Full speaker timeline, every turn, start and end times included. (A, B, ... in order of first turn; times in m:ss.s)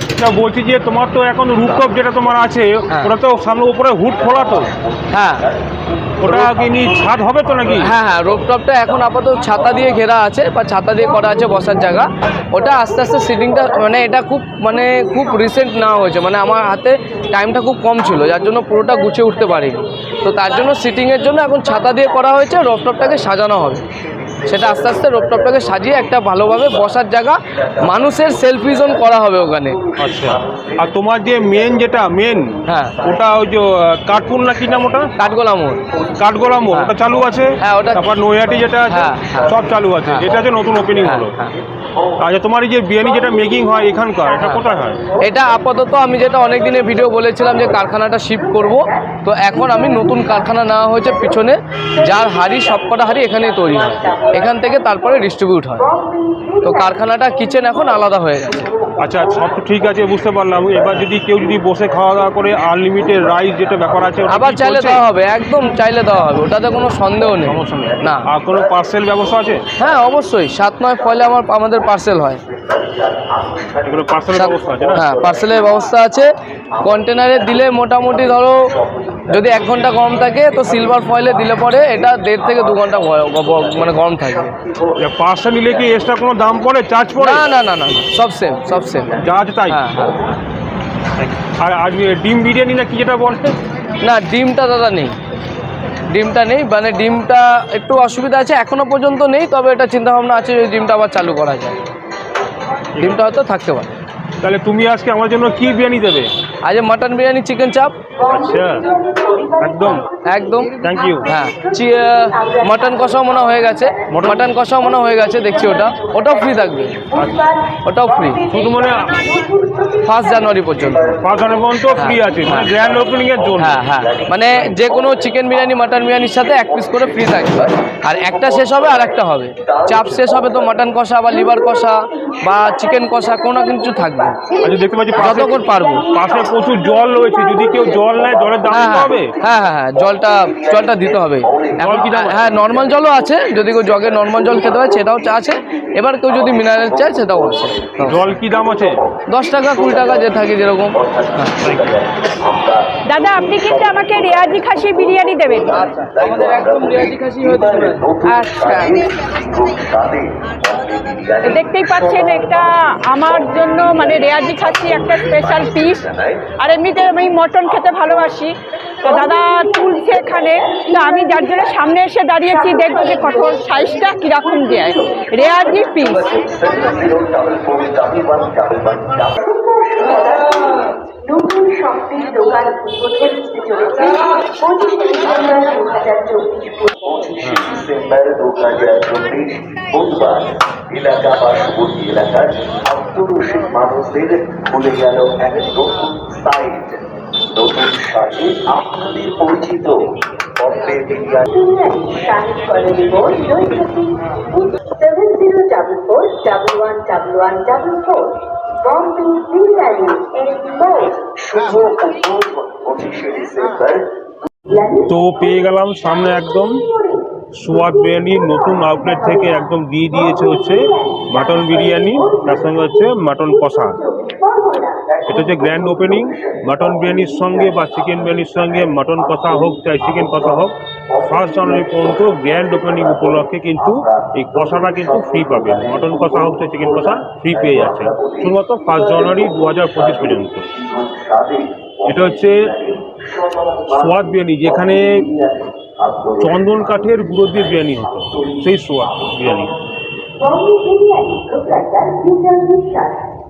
0:00.2-0:04.7 A
0:01.8-0:02.3 B
0:04.1-0:10.2 B
0:05.1-0:05.4 C
0:06.2-0:08.0 A
0:07.9-0:23.8 C
0:10.9-0:22.8 D
0:22.4-0:42.3 B
0:24.5-0:29.8 C
0:30.0-0:35.1 A
0:32.7-0:33.0 C
0:35.3-0:35.8 C
0:36.2-0:41.4 A
0:37.6-0:38.0 C
0:38.9-0:39.5 C
0:41.0-0:41.5 C
0:42.2-0:45.0 A
0:43.0-0:58.5 D
0:43.0-0:43.4 B
0:45.2-0:55.9 C
0:56.6-0:58.7 C
0:57.8-1:26.2 B
0:59.0-1:05.0 A
1:04.3-1:08.2 C
1:07.4-1:09.7 A
1:09.8-1:12.4 C
1:13.9-1:15.1 A
1:14.4-1:16.3 C
1:16.8-1:18.6 C
1:19.3-1:24.5 C
1:25.0-1:27.5 A
1:27.2-1:29.2 C
1:27.3-1:27.7 B
1:28.4-1:30.4 B
1:29.2-1:29.9 A
1:29.7-1:30.2 C
1:31.2-1:33.6 A
1:34.0-1:35.2 C
1:36.1-1:41.8 C
1:43.0-1:43.3 A
1:43.1-1:43.9 C
1:44.4-1:46.3 A
1:46.7-1:47.9 C
1:48.2-2:00.8 D
1:48.3-1:48.8 A
1:49.4-1:50.1 A
1:50.2-1:50.7 C
1:50.8-1:51.3 A
1:51.4-1:56.9 C
1:54.1-1:54.5 A
1:57.2-1:57.4 A
1:57.9-1:58.4 C
1:58.4-1:59.3 A
2:00.1-2:01.1 C
2:00.6-2:10.9 B
2:01.2-2:03.8 A
2:02.0-2:02.7 C
2:03.6-2:14.4 C
2:04.5-2:04.8 A
2:11.3-2:19.1 D
2:14.1-2:14.6 B
2:14.6-2:19.4 A
2:15.2-2:16.1 C
2:16.2-2:16.6 B
2:17.7-2:48.4 B
2:18.7-2:28.2 C
2:21.8-2:22.6 A
2:28.0-2:29.0 A
2:29.3-2:31.6 C
2:31.6-2:32.0 A
2:33.1-2:35.7 E
2:35.7-2:38.0 C
2:38.4-2:38.7 E
2:38.6-2:39.1 C
2:41.4-2:46.1 E
2:46.6-2:56.2 E
2:49.0-2:51.9 D
2:52.4-2:57.0 D
2:56.0-3:00.4 B
2:59.4-3:07.1 D
3:07.0-3:21.5 B
3:21.5-3:31.2 D
3:31.3-3:34.1 B
3:34.7-3:45.0 D
3:35.1-3:36.8 A
3:37.6-3:44.0 A
3:45.1-4:10.0 B
3:45.3-3:50.7 A
3:51.3-4:00.7 A
4:02.1-4:02.6 A
4:03.9-4:05.2 A
4:06.4-4:09.7 A
4:10.4-4:13.3 D